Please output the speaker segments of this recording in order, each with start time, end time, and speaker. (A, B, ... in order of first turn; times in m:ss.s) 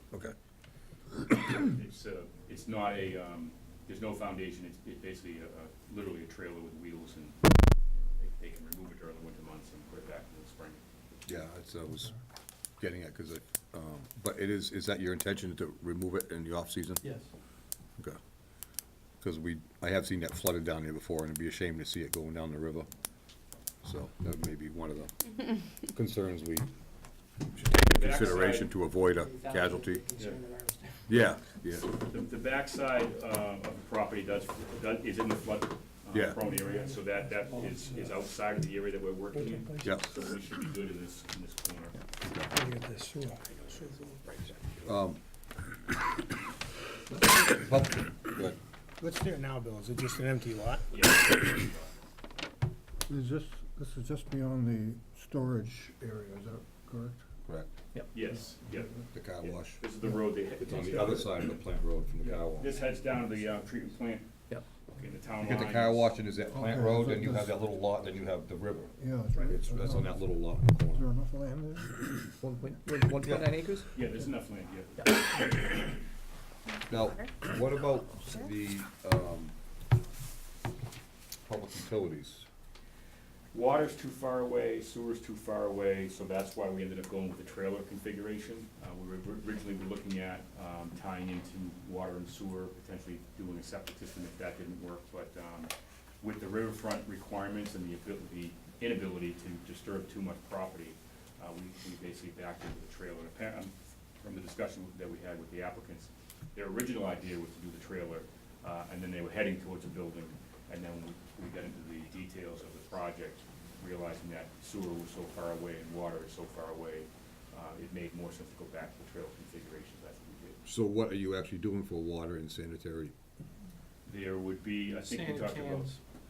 0:01.5-0:07.4 A
0:07.9-0:10.8 A
0:11.3-0:12.1 B
0:12.8-0:17.0 B
0:17.0-0:17.3 C
0:19.2-0:22.9 B
0:23.8-0:26.7 B
0:27.5-0:30.0 B
0:27.8-0:28.7 A
0:29.0-0:31.1 C
0:31.1-0:31.9 B
0:32.0-0:42.0 A
0:36.1-0:36.4 B
0:37.6-0:38.0 C
0:39.6-0:39.9 D
0:39.8-0:40.1 B
0:42.2-0:42.5 B
0:42.5-0:44.4 D
0:44.8-0:45.2 B
0:47.4-0:48.6 B
0:49.0-0:50.8 D
0:50.9-0:51.9 A
0:53.1-0:57.3 E
0:58.1-1:01.6 A
0:59.1-0:59.9 B
1:00.6-1:02.8 B
1:02.2-1:06.1 A
1:05.4-1:09.0 B
1:06.5-1:07.6 E
1:09.0-1:12.0 E
1:09.5-1:11.1 B
1:12.4-1:13.8 C
1:13.9-1:16.0 A
1:16.9-1:19.5 B
1:21.5-1:22.5 B
1:23.5-2:00.6 A
2:00.7-2:03.1 B
2:04.1-2:05.9 A
2:05.1-2:06.0 C